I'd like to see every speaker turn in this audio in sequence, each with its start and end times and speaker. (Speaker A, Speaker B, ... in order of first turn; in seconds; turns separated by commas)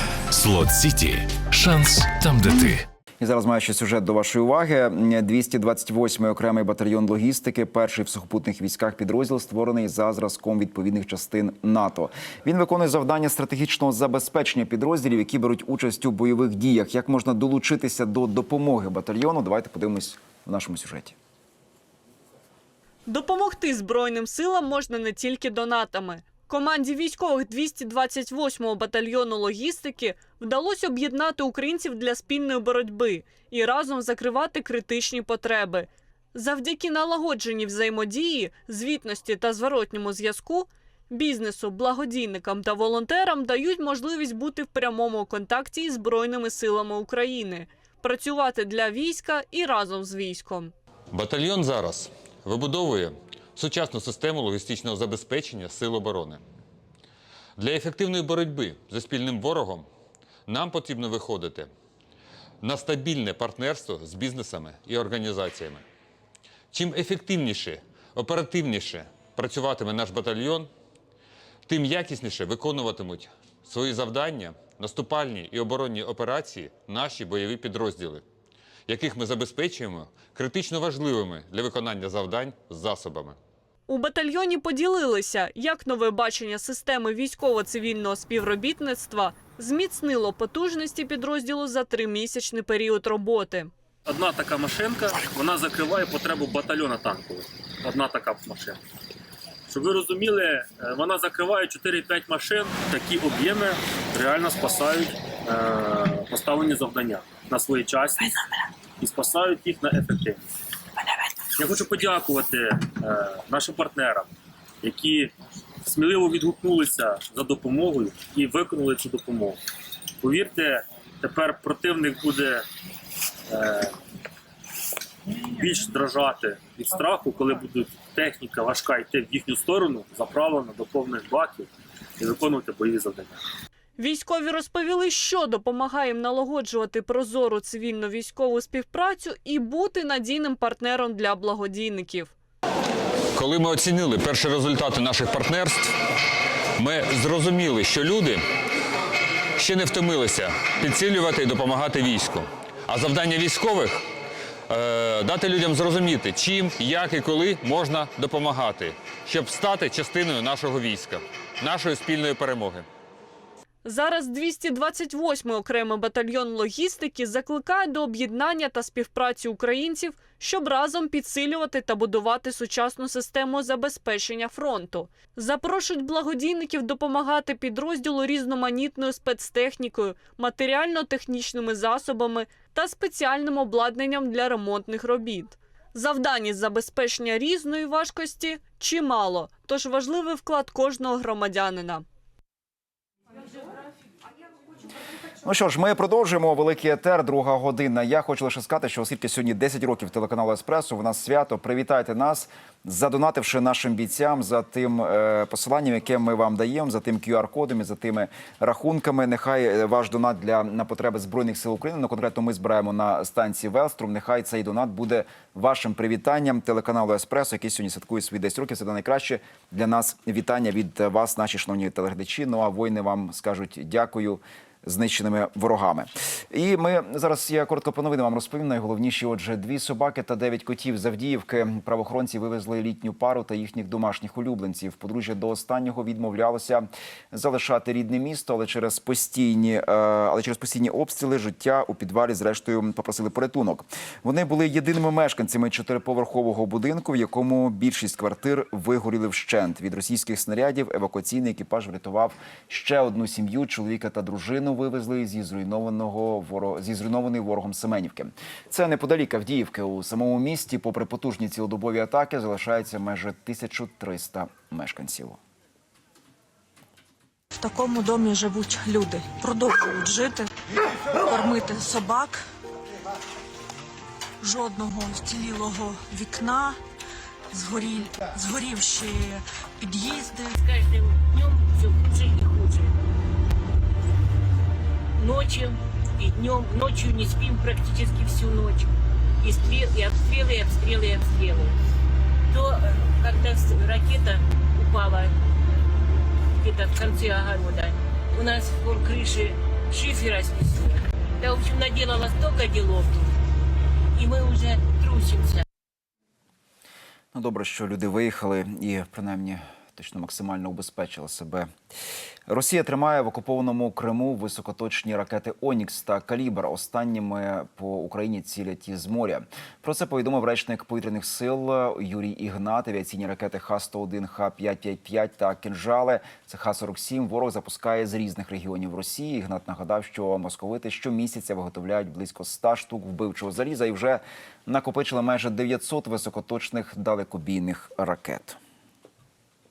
Speaker A: 0.3-2.9, Speaker B: 3.2-21.1, Speaker C: 23.1-50.7, Speaker D: 51.1-56.4, Speaker D: 57.6-59.9, Speaker D: 60.5-61.7, Speaker D: 62.6-65.8, Speaker D: 66.7-70.7, Speaker D: 71.7-78.2, Speaker D: 78.9-83.4, Speaker C: 83.9-93.7, Speaker E: 94.1-98.8, Speaker E: 99.7-108.4, Speaker E: 109.0-110.4, Speaker E: 111.5-114.3, Speaker E: 114.8-115.3, Speaker E: 115.8-119.6, Speaker E: 120.2-122.6, Speaker E: 123.5-123.9, Speaker E: 125.6-133.4, Speaker C: 134.0-142.3, Speaker D: 143.3-145.9, Speaker D: 146.8-148.4, Speaker D: 149.6-154.1, Speaker D: 154.7-162.9, Speaker C: 163.8-192.1, Speaker B: 195.4-265.4, Speaker F: 267.6-270.5, Speaker F: 271.2-272.4, Speaker F: 274.4-276.8, Speaker F: 277.5-280.6, Speaker G: 280.6-282.9, Speaker G: 285.2-288.9, Speaker G: 289.4-291.7, Speaker G: 292.5-295.3, Speaker G: 296.6-303.3, Speaker G: 304.2-305.6, Speaker B: 307.3-311.7, Speaker B: 312.5-338.6